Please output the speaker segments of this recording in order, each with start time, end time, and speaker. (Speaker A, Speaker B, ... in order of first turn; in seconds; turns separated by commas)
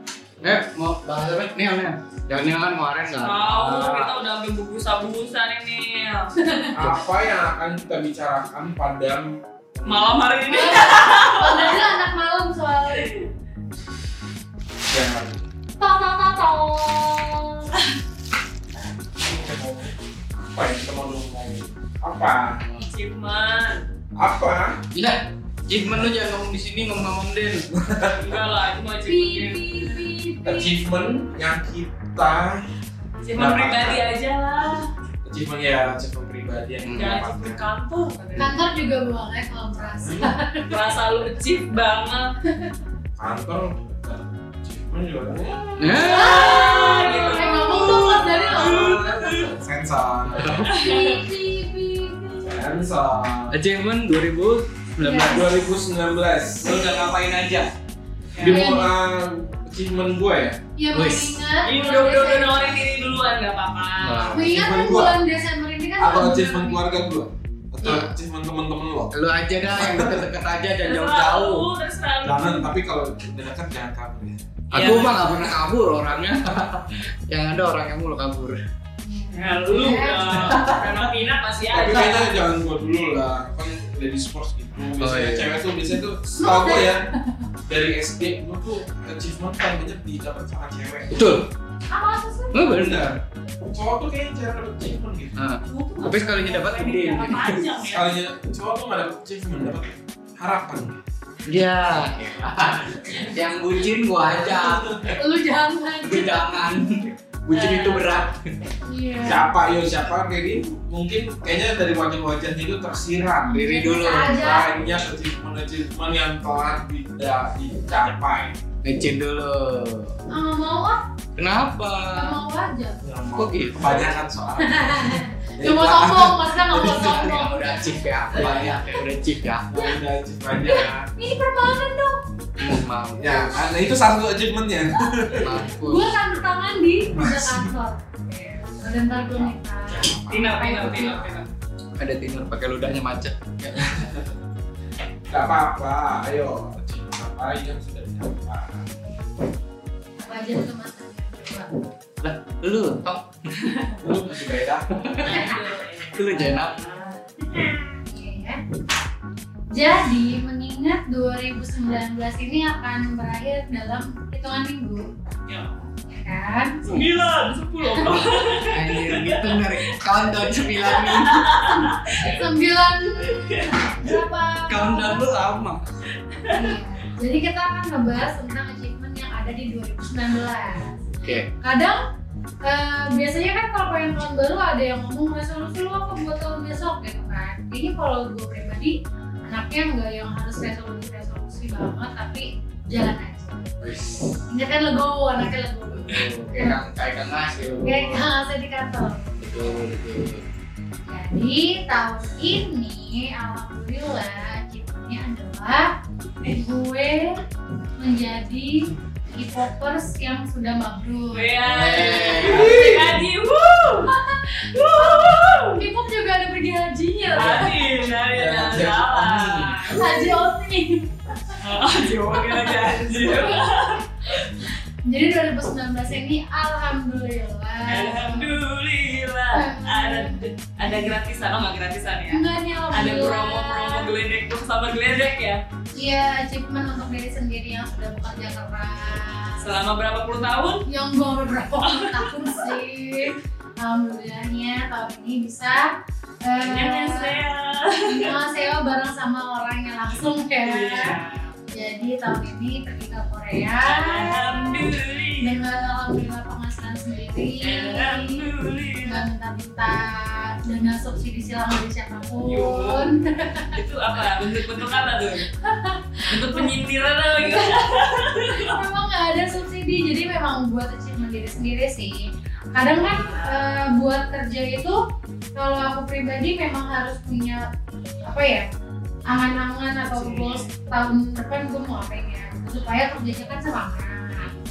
Speaker A: 0.4-3.9, Speaker B: 3.2-6.3, Speaker C: 3.7-4.1, Speaker D: 6.3-6.8, Speaker C: 6.7-10.2, Speaker B: 9.8-11.9, Speaker D: 10.5-13.1, Speaker C: 14.9-15.5, Speaker D: 15.8-17.7, Speaker C: 19.0-19.9, Speaker C: 20.4-22.6, Speaker B: 22.7-23.8, Speaker C: 24.1-24.8, Speaker A: 24.9-27.6, Speaker C: 27.7-28.3, Speaker B: 28.1-30.0, Speaker D: 29.1-30.7, Speaker C: 30.4-32.6, Speaker B: 33.2-34.9, Speaker C: 33.4-34.1, Speaker C: 35.2-37.6, Speaker A: 36.8-37.1, Speaker B: 36.9-38.6, Speaker D: 38.4-40.8, Speaker C: 39.9-40.3, Speaker B: 40.7-42.3, Speaker C: 43.2-46.0, Speaker A: 45.8-46.8, Speaker B: 45.8-49.5, Speaker D: 46.1-48.9, Speaker C: 48.4-50.7, Speaker A: 50.3-50.7, Speaker B: 50.6-51.2, Speaker D: 50.8-52.6, Speaker C: 52.4-53.6, Speaker A: 53.5-55.6, Speaker D: 55.0-55.5, Speaker C: 55.1-57.7, Speaker A: 56.7-57.1, Speaker B: 58.3-58.6, Speaker C: 58.4-60.6, Speaker D: 58.5-58.9, Speaker D: 60.8-62.8, Speaker A: 60.9-61.5, Speaker B: 61.6-64.4, Speaker A: 64.0-64.5, Speaker D: 64.3-66.8, Speaker C: 64.5-65.2, Speaker C: 66.0-69.1, Speaker A: 67.8-68.1, Speaker A: 69.1-71.6, Speaker C: 69.7-70.2, Speaker B: 70.8-72.7, Speaker C: 72.2-75.0, Speaker A: 74.7-78.6, Speaker B: 74.7-75.6, Speaker D: 79.0-80.6, Speaker B: 79.3-82.4, Speaker A: 80.3-81.1, Speaker C: 81.7-87.1, Speaker A: 85.0-85.5, Speaker D: 86.4-87.4, Speaker C: 87.7-91.2, Speaker A: 91.1-91.5, Speaker D: 91.9-92.8, Speaker A: 92.5-93.2, Speaker C: 92.6-95.4, Speaker A: 95.3-97.6, Speaker B: 95.7-98.1, Speaker C: 97.9-101.0, Speaker A: 101.5-105.2, Speaker C: 101.9-102.3, Speaker C: 104.4-105.0, Speaker D: 105.1-106.4, Speaker A: 106.0-108.5, Speaker B: 107.5-108.1, Speaker D: 108.8-109.5, Speaker C: 109.2-113.6, Speaker D: 113.5-114.8, Speaker A: 113.5-114.6, Speaker C: 114.2-118.6, Speaker A: 118.8-120.2, Speaker D: 120.3-121.0, Speaker A: 121.3-122.4, Speaker D: 122.1-123.0, Speaker C: 123.0-127.1, Speaker A: 123.3-124.1, Speaker D: 124.6-128.8, Speaker A: 126.7-129.7, Speaker C: 128.4-128.7, Speaker C: 129.7-131.1, Speaker D: 130.6-132.2, Speaker A: 132.6-133.4, Speaker C: 133.2-135.5, Speaker D: 133.2-133.8, Speaker D: 135.3-141.2, Speaker A: 135.3-136.2, Speaker C: 137.1-137.7, Speaker C: 139.9-141.4, Speaker B: 140.3-141.4, Speaker A: 142.0-144.0, Speaker C: 143.7-144.3, Speaker C: 145.3-148.9, Speaker D: 150.2-151.7, Speaker A: 152.2-155.5, Speaker C: 154.0-155.1, Speaker B: 155.2-157.2, Speaker D: 155.3-155.6, Speaker A: 156.1-156.8, Speaker D: 157.5-158.6, Speaker D: 159.7-165.1, Speaker B: 165.5-165.8, Speaker D: 166.1-167.0, Speaker B: 166.8-172.4, Speaker D: 167.9-168.3, Speaker A: 168.6-171.9, Speaker D: 171.7-175.2, Speaker B: 173.2-173.8, Speaker A: 174.7-175.9, Speaker B: 176.4-176.7, Speaker D: 176.5-182.0, Speaker D: 182.6-193.7, Speaker A: 193.8-194.3, Speaker D: 194.5-196.8, Speaker A: 196.0-198.2, Speaker D: 197.8-199.7, Speaker A: 199.4-200.4, Speaker D: 201.1-205.9, Speaker D: 206.4-207.4, Speaker D: 208.0-212.3, Speaker B: 211.3-214.1, Speaker A: 211.6-212.8, Speaker C: 212.4-213.2, Speaker D: 214.1-217.9, Speaker B: 214.7-215.8, Speaker B: 217.3-220.3, Speaker C: 217.4-217.7, Speaker C: 218.2-220.0, Speaker D: 219.9-221.6, Speaker B: 221.6-224.5, Speaker D: 222.3-223.7, Speaker D: 225.1-228.6, Speaker B: 227.9-235.6, Speaker D: 229.5-231.2, Speaker D: 232.3-234.1, Speaker D: 235.9-239.8, Speaker B: 239.6-240.8, Speaker D: 240.8-245.9, Speaker B: 241.8-242.7, Speaker D: 246.4-247.4, Speaker B: 246.6-248.4, Speaker D: 248.1-251.2, Speaker B: 250.6-251.6, Speaker D: 251.7-254.9, Speaker B: 253.8-255.6, Speaker D: 255.4-258.5, Speaker B: 257.6-259.2, Speaker D: 259.0-263.8, Speaker B: 262.4-263.1, Speaker B: 263.7-265.4, Speaker D: 264.7-266.7, Speaker B: 266.3-268.8, Speaker D: 267.4-275.0, Speaker B: 272.9-273.9, Speaker D: 275.6-277.6, Speaker D: 278.2-278.7, Speaker D: 279.3-284.5, Speaker C: 280.1-280.6